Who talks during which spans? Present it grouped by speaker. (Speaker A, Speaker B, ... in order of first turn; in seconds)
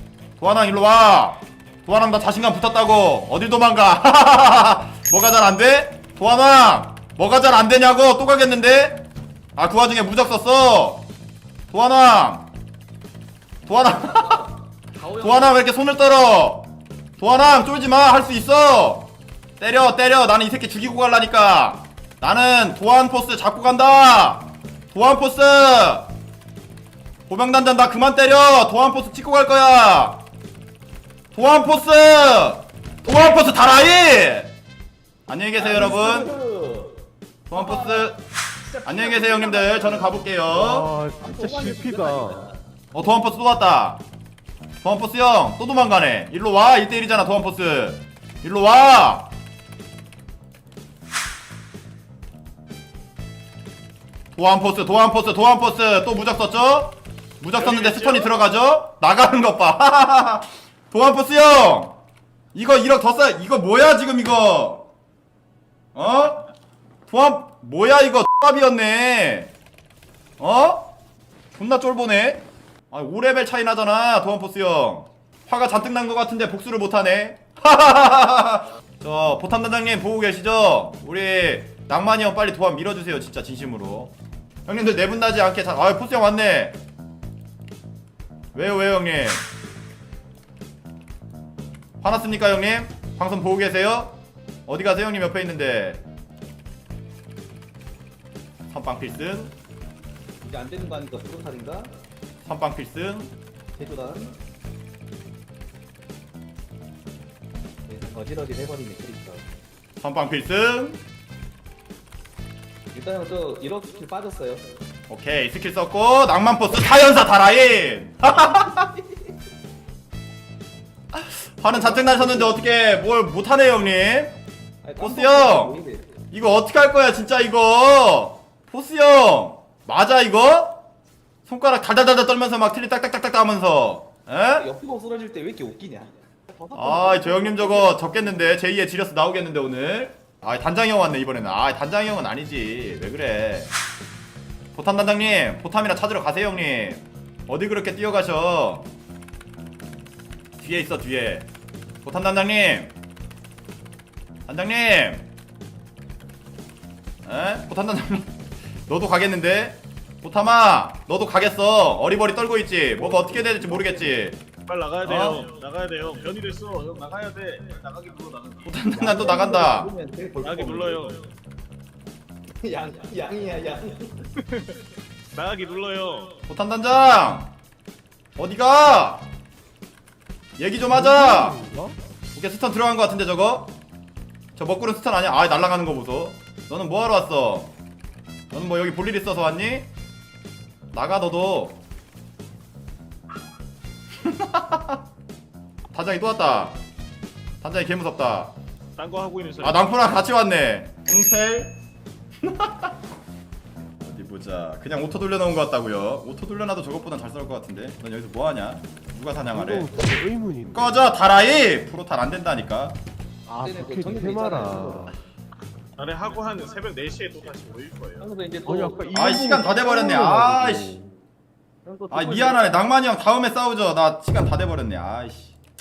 Speaker A: 0.4-11.1, 11.7-12.5, 13.7-14.5, 15.2-26.1, 27.3-30.2, 31.3-34.5, 35.3-36.3, 37.5-38.2, 38.9-40.9, 42.9-44.0, 44.8-49.3, 54.4-62.0, 62.5-64.9, 65.9-66.5, 67.1-69.5, 70.4-71.0, 71.5-84.1, 84.7-86.8, 88.5-89.5, 92.0-96.0, 98.7-99.5, 102.4-103.3, 110.0-111.0, 115.1-118.9, 121.1-124.4, 125.0-125.8, 126.3-130.8, 131.4-134.7, 136.7-143.7, 144.7-148.9, 150.6-151.5, 152.0-152.9, 154.5-155.3, 157.2-164.4, 165.0-165.5, 168.7-169.9, 176.5-177.5, 178.4-179.2, 180.6-181.7, 182.3-183.7, 184.6-187.7, 188.5-189.9, 190.9-191.8, 194.2-195.0, 195.9-196.8, 197.6-198.6, 199.6-201.8, 202.4-203.0, 204.0-210.0, 210.7-213.0, 219.1-221.0, 222.1-225.6
Speaker B: 13.9-15.6, 35.6-37.0, 37.5-40.3, 41.2-42.6, 100.4-101.9, 103.7-104.4, 107.9-109.5, 112.9-114.7, 121.7-122.6, 124.8-126.1, 134.6-138.6, 162.9-164.3, 168.9-171.1, 172.6-174.3, 213.6-215.2, 218.2-220.2, 221.8-222.8
Speaker C: 40.5-42.5, 180.9-182.0, 209.5-211.1, 213.5-215.2, 218.7-221.1
Speaker D: 57.5-58.4, 164.7-168.7, 170.4-171.2, 175.3-176.4, 199.0-199.8, 216.0-218.3